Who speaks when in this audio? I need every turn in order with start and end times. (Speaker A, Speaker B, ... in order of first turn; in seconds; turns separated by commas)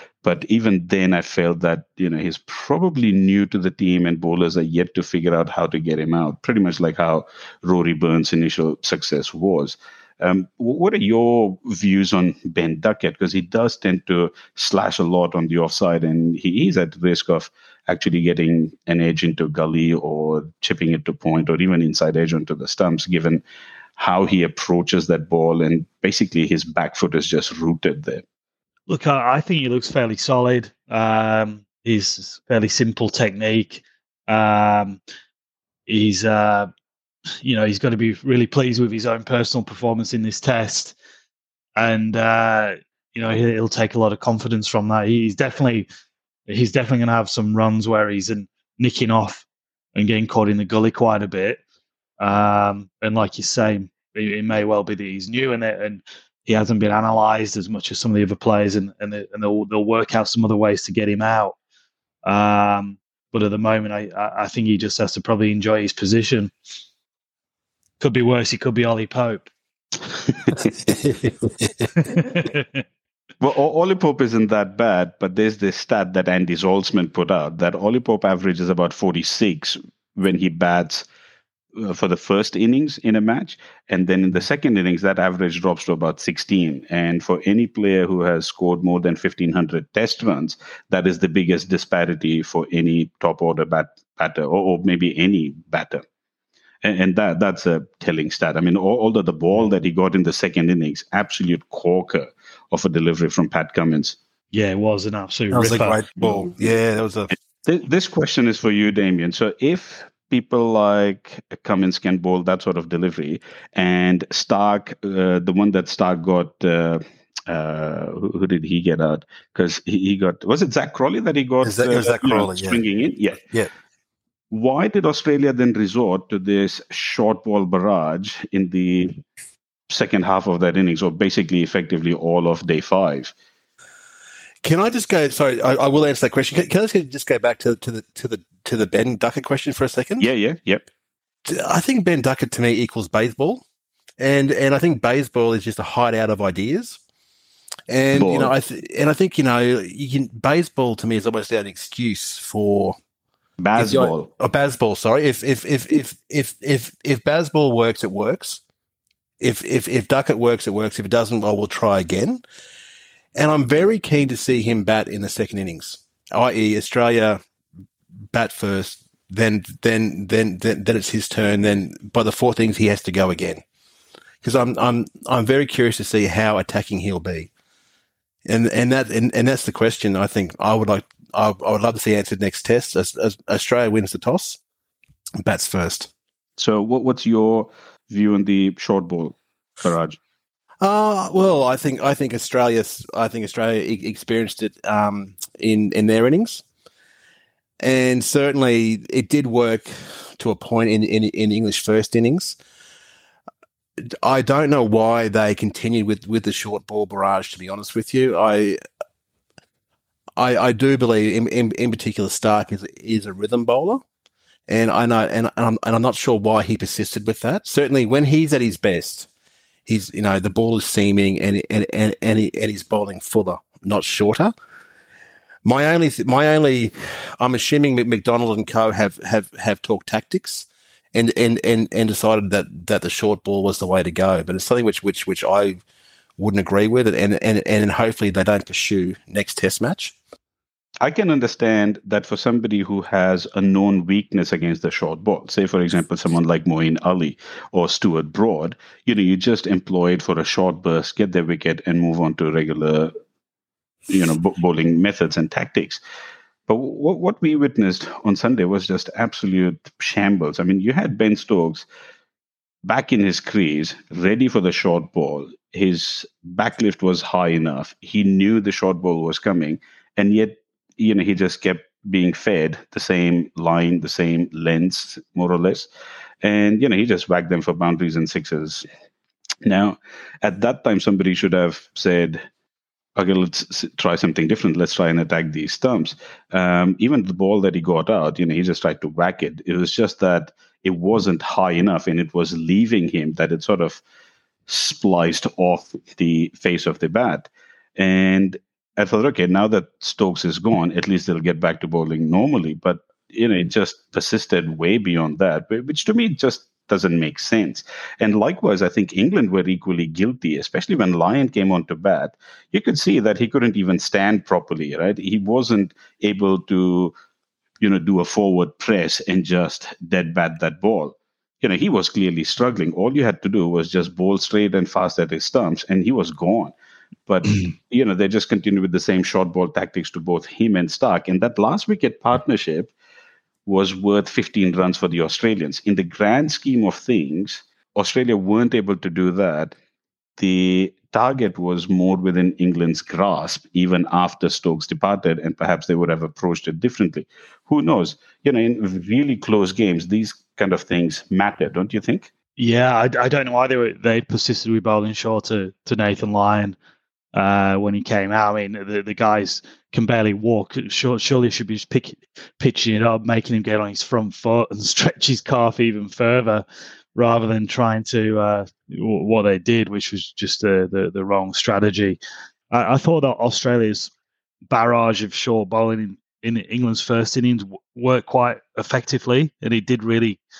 Speaker A: 0.2-23.4, Speaker A: 24.0-28.2, Speaker B: 28.9-35.0, Speaker B: 35.9-36.7, Speaker B: 37.4-41.0, Speaker B: 41.8-45.9, Speaker B: 46.5-51.6, Speaker B: 52.2-61.5, Speaker B: 62.2-66.5, Speaker B: 68.0-69.5, Speaker A: 70.3-70.7, Speaker C: 70.8-71.9, Speaker B: 71.9-72.8, Speaker A: 73.4-81.0, Speaker A: 81.7-96.0, Speaker A: 96.8-104.2, Speaker B: 104.5-106.0, Speaker C: 105.5-107.3, Speaker A: 106.2-106.5, Speaker A: 107.6-123.4, Speaker C: 121.6-122.8, Speaker C: 123.4-123.7, Speaker A: 124.5-129.2, Speaker A: 129.9-133.3, Speaker C: 134.6-140.3, Speaker A: 140.2-140.8, Speaker C: 141.4-143.6, Speaker C: 144.2-147.0, Speaker C: 147.9-153.0, Speaker A: 148.1-148.5, Speaker A: 153.6-154.3, Speaker C: 153.8-158.6, Speaker C: 159.4-162.4, Speaker C: 163.3-167.4, Speaker C: 168.3-173.6, Speaker C: 174.4-177.5, Speaker C: 178.4-184.6, Speaker C: 185.4-186.1, Speaker A: 186.6-190.2, Speaker C: 190.8-196.6, Speaker C: 197.8-202.6, Speaker C: 204.2-208.8, Speaker C: 210.4-214.0, Speaker C: 214.7-219.3, Speaker C: 219.8-224.5, Speaker C: 225.6-235.8, Speaker C: 236.4-240.1, Speaker A: 241.0-253.1, Speaker A: 254.1-256.0, Speaker A: 256.7-261.9, Speaker A: 262.8-275.9, Speaker A: 276.4-278.9, Speaker A: 279.6-282.4, Speaker A: 283.1-294.0, Speaker A: 294.7-317.1, Speaker A: 317.8-326.7, Speaker A: 327.3-332.9, Speaker A: 333.6-339.8, Speaker A: 340.4-352.3, Speaker B: 352.6-356.8, Speaker B: 357.3-372.2, Speaker B: 372.7-374.1, Speaker B: 374.7-380.4